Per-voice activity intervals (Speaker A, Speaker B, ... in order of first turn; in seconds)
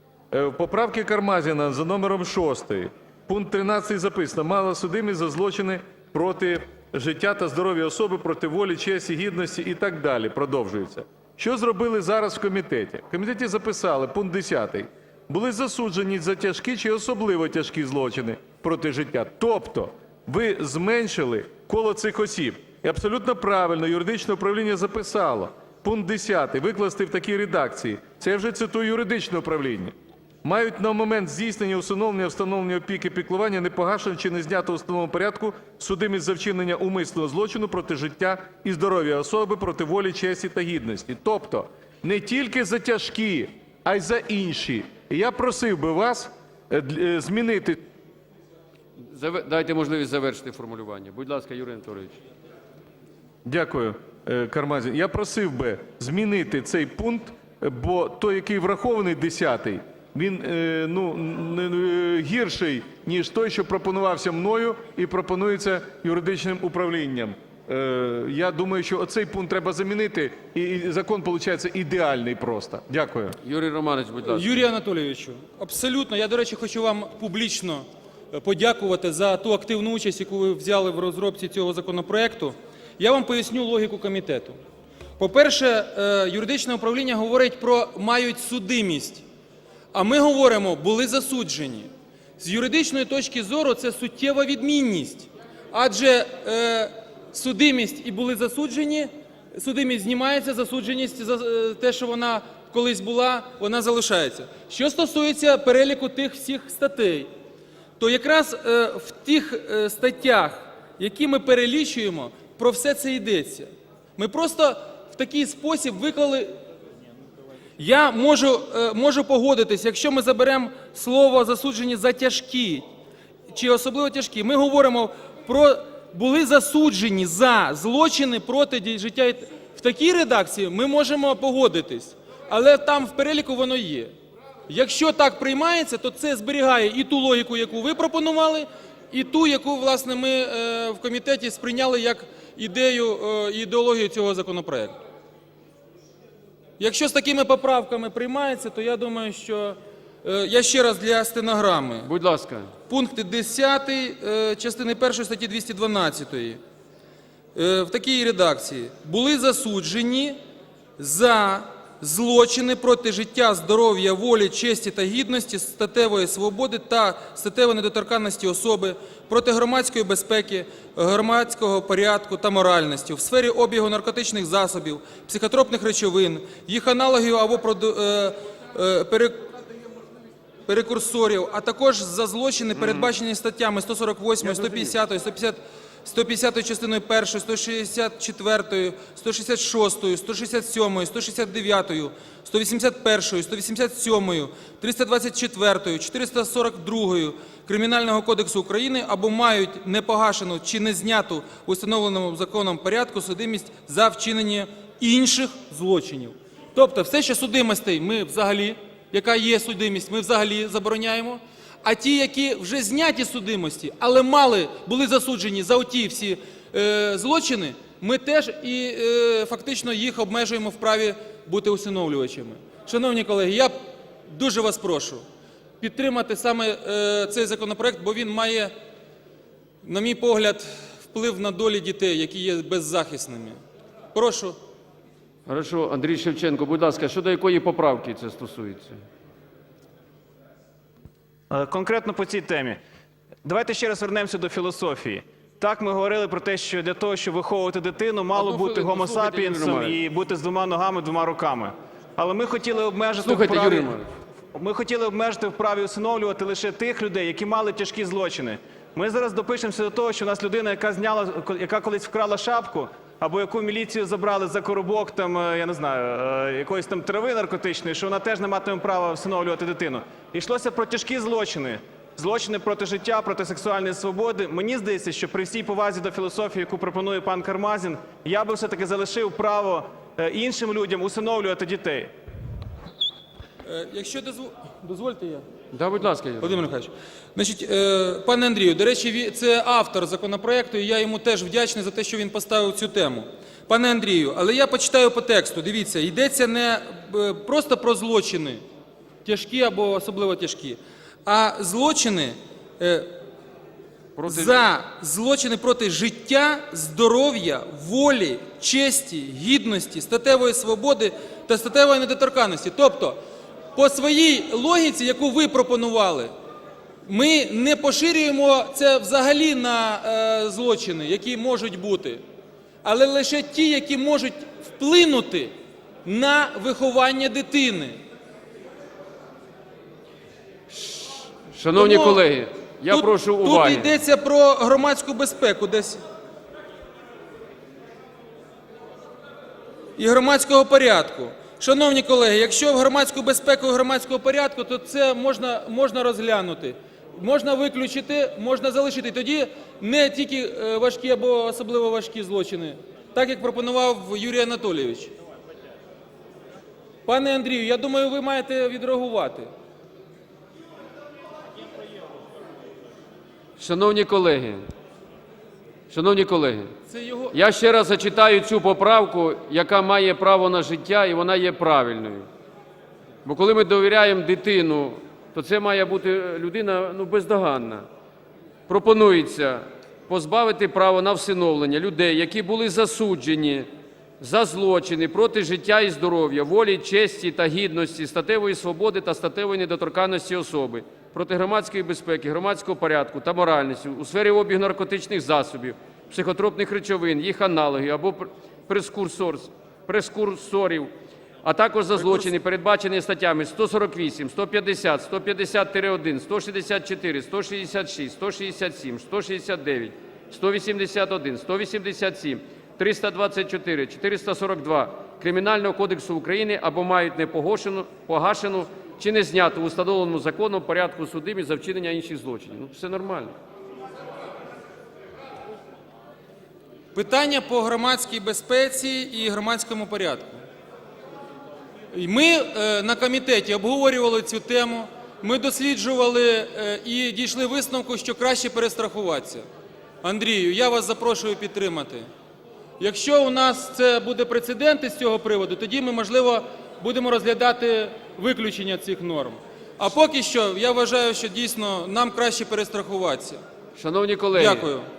Speaker A: 0.3-47.8, 53.4-73.3
Speaker B: 49.1-52.2, 73.4-74.6, 152.0-152.7, 235.4-239.0, 248.3-250.0, 253.2-254.1, 285.7-286.6, 304.1-304.6, 330.7-334.0, 363.6-364.7, 365.9-366.7, 367.3-372.3, 373.2-377.9, 378.7-400.9, 401.4-423.3, 453.8-454.7
Speaker C: 74.2-84.6, 85.2-89.2, 89.9-107.3, 108.0-116.5, 117.8-122.8, 123.5-134.1, 134.7-145.0, 146.8-152.1, 152.9-156.6, 157.5-160.4, 161.0-179.5, 180.7-223.8, 224.3-225.2, 225.8-228.7, 229.8-233.6, 234.1-234.6, 283.6-285.5, 286.4-298.6, 299.2-303.1, 304.3-313.2, 313.8-316.3, 317.0-322.2, 322.8-325.5, 326.0-328.0, 331.8-332.2, 332.9-336.0, 340.0-355.1, 357.1-359.5, 366.9-367.3, 426.9-430.4, 431.9-439.5, 440.0-442.1, 442.8-453.4, 454.4-454.9
Speaker D: 241.5-242.8, 243.4-253.9, 254.5-282.1